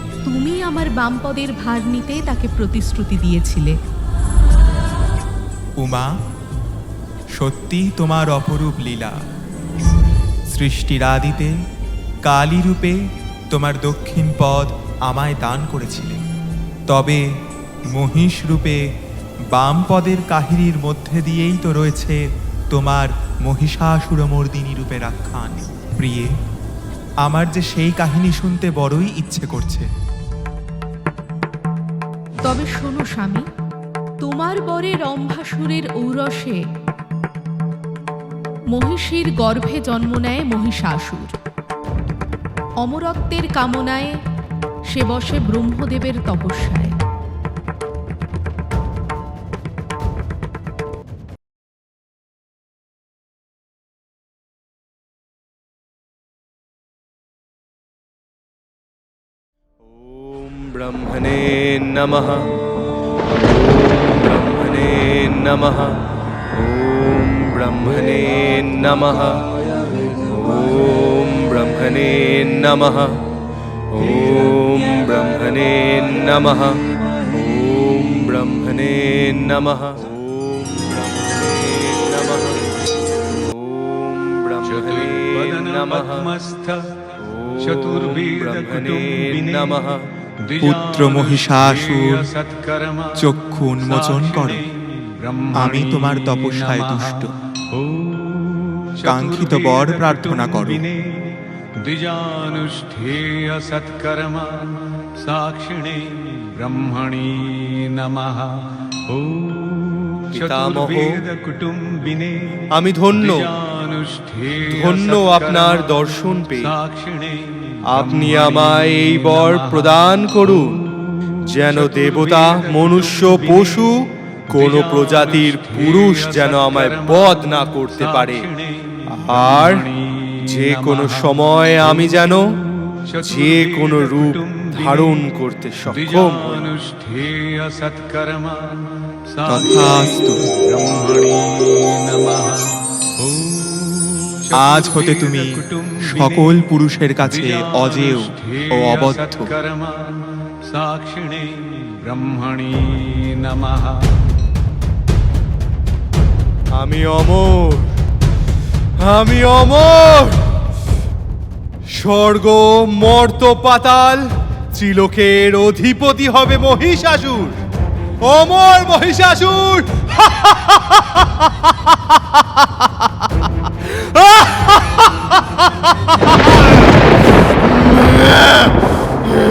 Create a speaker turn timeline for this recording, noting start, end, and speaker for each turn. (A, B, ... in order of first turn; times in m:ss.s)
0:00.2-0:03.8 A
0:05.8-0:06.1 B
0:07.4-0:09.2 B
0:10.5-0:11.6 B
0:12.2-0:16.2 B
0:16.9-0:17.2 B
0:17.9-0:18.9 B
0:19.5-0:26.3 B
0:27.2-0:29.9 B
0:32.4-0:33.5 A
0:34.2-0:36.6 A
0:38.7-0:41.3 A
0:42.8-0:44.2 A
0:44.9-0:47.0 A
0:59.8-1:02.5 C
1:03.3-1:06.0 C
1:06.5-1:09.4 C
1:10.2-1:13.2 C
1:13.9-1:22.7 C
1:23.3-1:26.2 C
1:24.6-1:29.9 D
1:27.2-1:30.0 C
1:30.4-1:33.3 D
1:30.6-1:32.3 B
1:33.2-1:34.6 B
1:33.8-1:56.0 D
1:35.5-1:37.3 B
1:39.0-1:40.8 B
1:50.3-1:51.1 C
1:52.7-1:53.5 C
1:54.7-1:56.7 C
1:56.6-2:00.6 D
1:57.9-2:00.8 C
2:01.4-2:08.4 C
2:01.6-2:03.9 D
2:04.5-2:11.4 D
2:09.1-2:09.8 C
2:10.4-2:12.5 C
2:13.1-2:15.2 D
2:13.1-2:16.7 C
2:15.9-2:26.6 D
2:19.4-2:20.5 B
2:24.5-2:29.5 B
2:27.3-2:34.1 D
2:36.7-2:37.9 C
2:39.0-2:40.4 C
2:41.8-2:47.6 C
2:48.2-2:52.6 C
2:53.8-2:54.7 C